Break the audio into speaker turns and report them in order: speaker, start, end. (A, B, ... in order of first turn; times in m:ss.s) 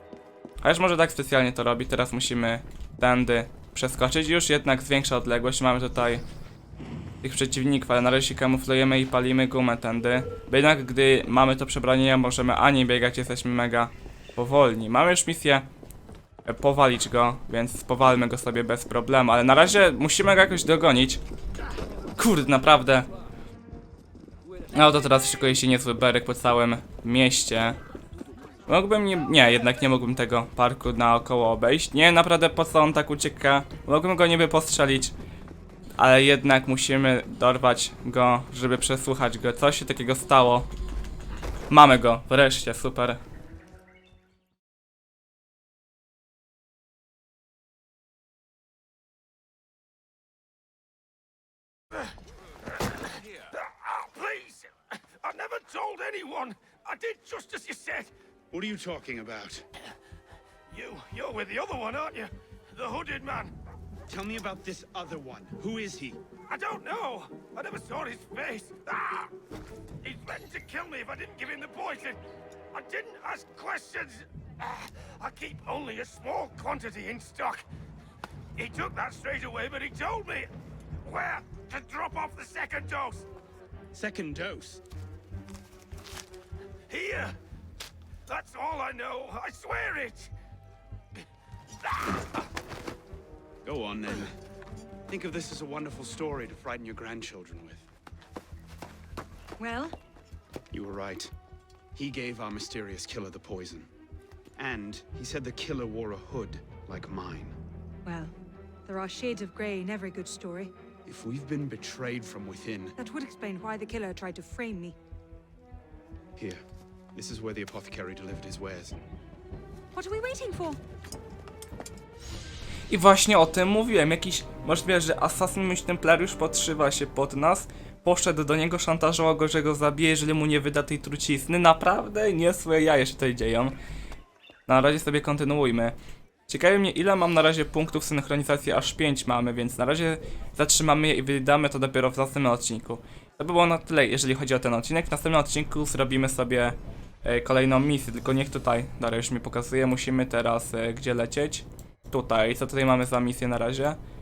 0:00.6-0:06.2 A
0:07.2-0:15.7 A
0:16.4-0:21.2 A
0:22.2-0:23.1 A
0:24.7-0:27.8 A
0:28.7-0:35.2 A
0:36.0-0:40.7 A
0:41.7-0:43.2 A
0:53.0-0:58.1 B
0:58.5-0:59.7 C
1:00.7-1:03.5 B
1:04.1-1:06.2 C
1:06.5-1:09.3 B
1:10.0-1:12.2 B
1:12.7-1:17.6 B
1:18.6-1:20.5 B
1:21.0-1:23.2 B
1:23.9-1:24.8 C
1:26.9-1:27.4 B
1:28.3-1:30.3 B
1:31.9-1:32.3 B
1:33.6-1:34.4 C
1:35.1-1:37.9 C
1:39.6-1:40.0 D
1:40.7-1:41.3 C
1:41.9-1:43.9 C
1:44.6-1:47.6 C
1:48.0-1:48.3 D
1:48.9-1:50.7 D
1:51.0-1:53.0 C
1:53.0-1:55.0 D
1:56.4-1:56.6 C
1:57.1-1:59.0 C
1:59.9-2:00.8 D
2:02.9-2:13.8 A
2:14.7-2:16.0 A
2:16.5-2:34.0 A